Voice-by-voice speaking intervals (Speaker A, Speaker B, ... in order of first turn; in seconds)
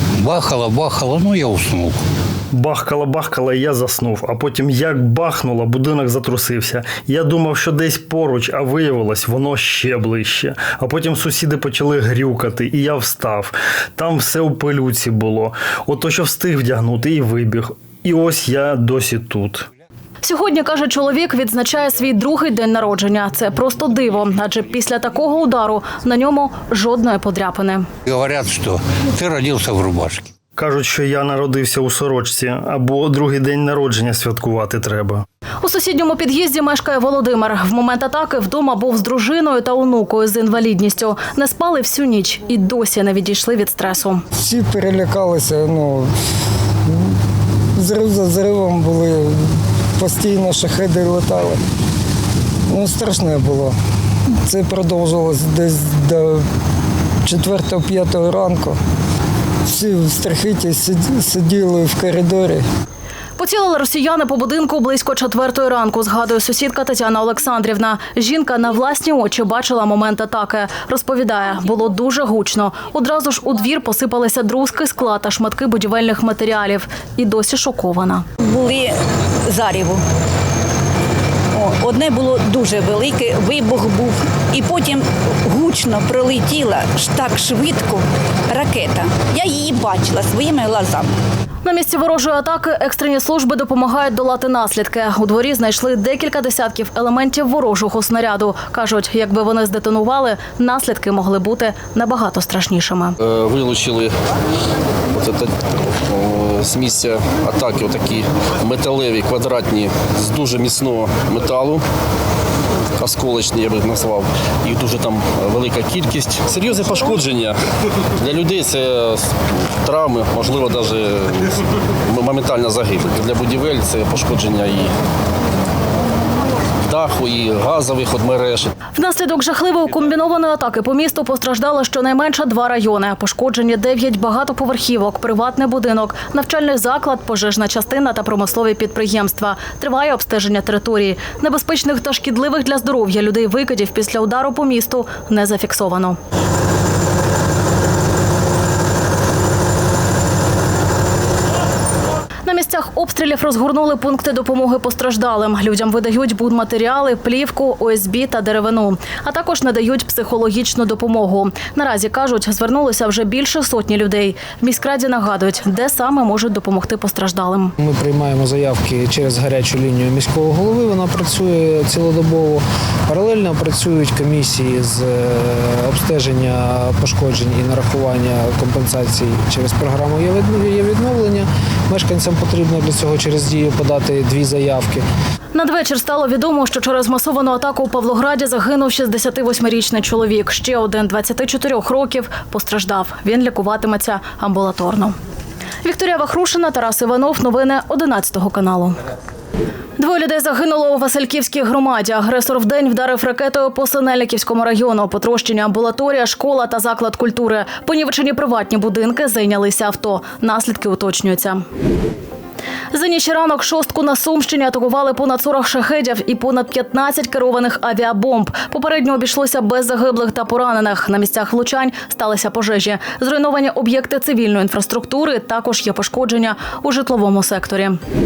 Speaker A: 0.2-2.0, 28.1-30.3
Speaker B: 2.5-19.7, 30.6-35.2
Speaker C: 20.2-27.9, 35.6-44.2, 63.4-78.3, 91.6-103.2, 128.9-146.2, 152.4-167.7, 185.5-195.2, 195.8-199.0, 200.0-211.6, 212.9-228.0
Speaker D: 44.4-46.1, 47.8-51.6, 52.7-53.7, 54.5-56.4, 57.2-58.8, 59.7-62.6
Speaker E: 78.4-79.0, 79.5-80.0, 81.5-91.1
Speaker F: 103.2-104.1, 105.1-105.5, 106.1-111.8, 113.0-117.6, 118.2-119.3, 119.8-124.9, 126.9-128.7
Speaker G: 167.8-185.1